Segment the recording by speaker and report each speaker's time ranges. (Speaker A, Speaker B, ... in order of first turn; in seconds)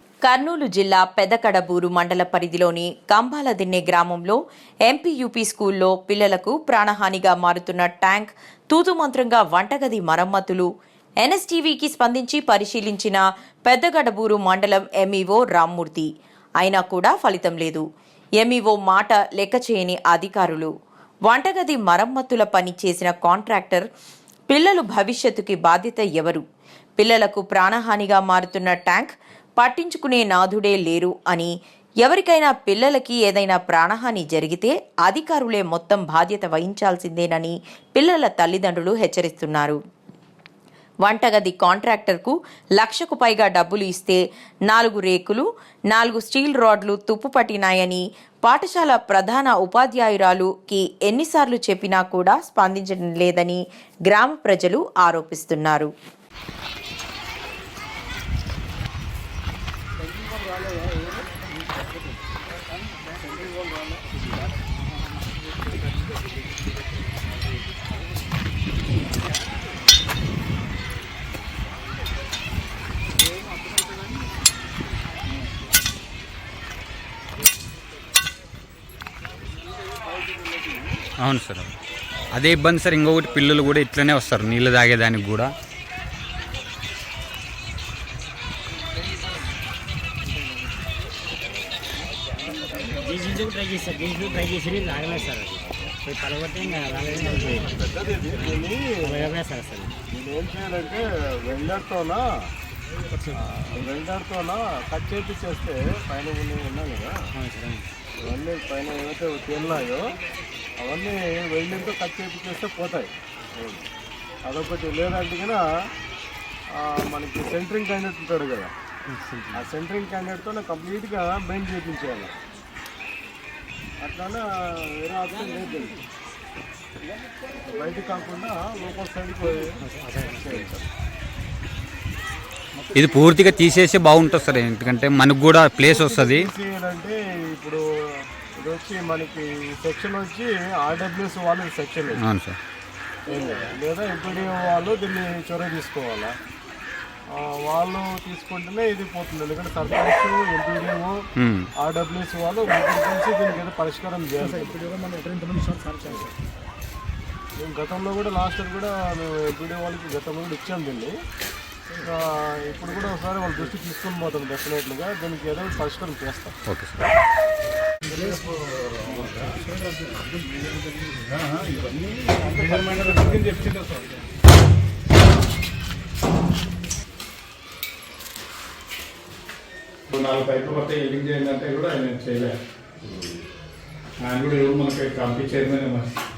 Speaker A: 0.2-10.7, 11.2-16.1, 16.6-17.9, 18.4-20.7, 21.3-23.9, 24.5-26.4, 27.0-31.5, 32.0-39.8, 41.1-55.9
Speaker B: 81.2-81.7, 82.4-85.5, 132.9-136.5, 142.2-142.6, 151.4-151.7, 166.7-167.0
Speaker C: 92.7-97.8, 98.3-99.9, 107.3-107.9, 119.1-119.6, 129.8-130.8
Speaker D: 97.5-99.3, 100.1-102.3, 103.3-107.2, 108.2-110.1, 110.8-113.9, 114.5-115.6, 116.7-118.7, 119.5-122.3, 124.0-126.0, 127.7-130.9, 135.8-142.2, 143.3-146.3, 147.3-151.2, 151.8-154.9, 157.6-161.2, 162.0-166.6, 168.1-168.5, 169.1-169.5, 172.4-173.2
Speaker E: 169.1-170.3, 171.0-174.2, 180.1-182.6, 184.2-186.2